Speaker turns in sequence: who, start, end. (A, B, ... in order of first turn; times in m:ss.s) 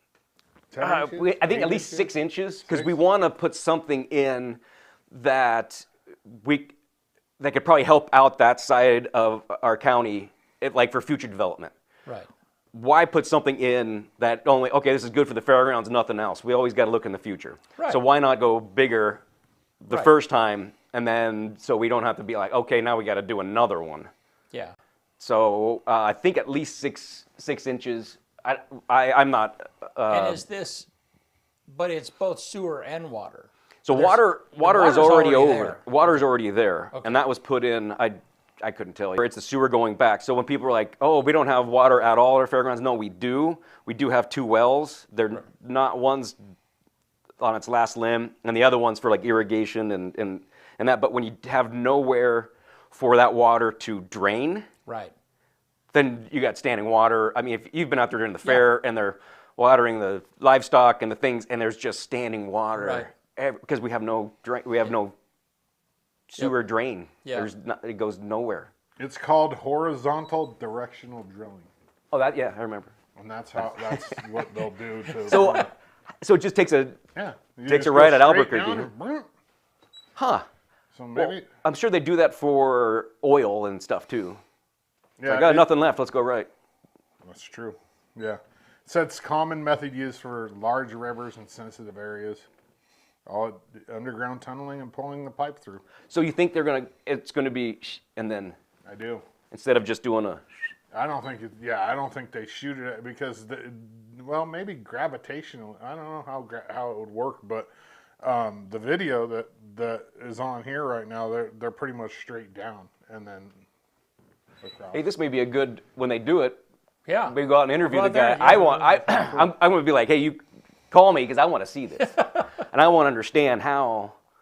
0:00.7-0:02.1 A
0:00.8-0:04.6 B
0:02.7-0:02.9 A
0:05.1-0:06.7 B
0:07.4-0:11.7 B
0:12.7-0:19.2 B
0:19.8-0:24.1 B
0:25.2-0:30.4 B
0:30.1-0:30.9 C
0:31.7-0:36.2 C
0:33.8-0:46.4 B
0:36.9-0:37.2 C
0:47.4-0:54.7 B
0:54.9-0:55.1 C
0:55.9-1:05.1 B
1:02.8-1:03.1 C
1:06.3-1:08.7 B
1:07.2-1:07.5 C
1:09.0-1:11.7 A
1:12.1-1:12.9 B
1:13.2-1:15.7 A
1:15.1-1:15.6 C
1:15.3-1:15.7 B
1:16.2-1:17.0 B
1:17.2-1:19.3 A
1:17.6-1:18.9 B
1:20.2-1:20.4 B
1:20.9-1:21.5 A
1:21.2-1:24.4 B
1:25.2-1:25.7 A
1:25.3-1:26.5 B
1:27.2-1:32.5 A
1:33.3-1:35.8 A
1:36.1-1:38.6 B
1:38.9-1:39.2 A
1:39.5-1:40.4 B
1:40.9-1:47.7 A
1:48.2-1:53.6 A
1:54.6-1:55.1 A
1:54.9-1:56.6 B
1:57.1-1:59.5 C
1:57.3-2:00.4 B
2:00.9-2:04.2 B
2:02.0-2:02.5 C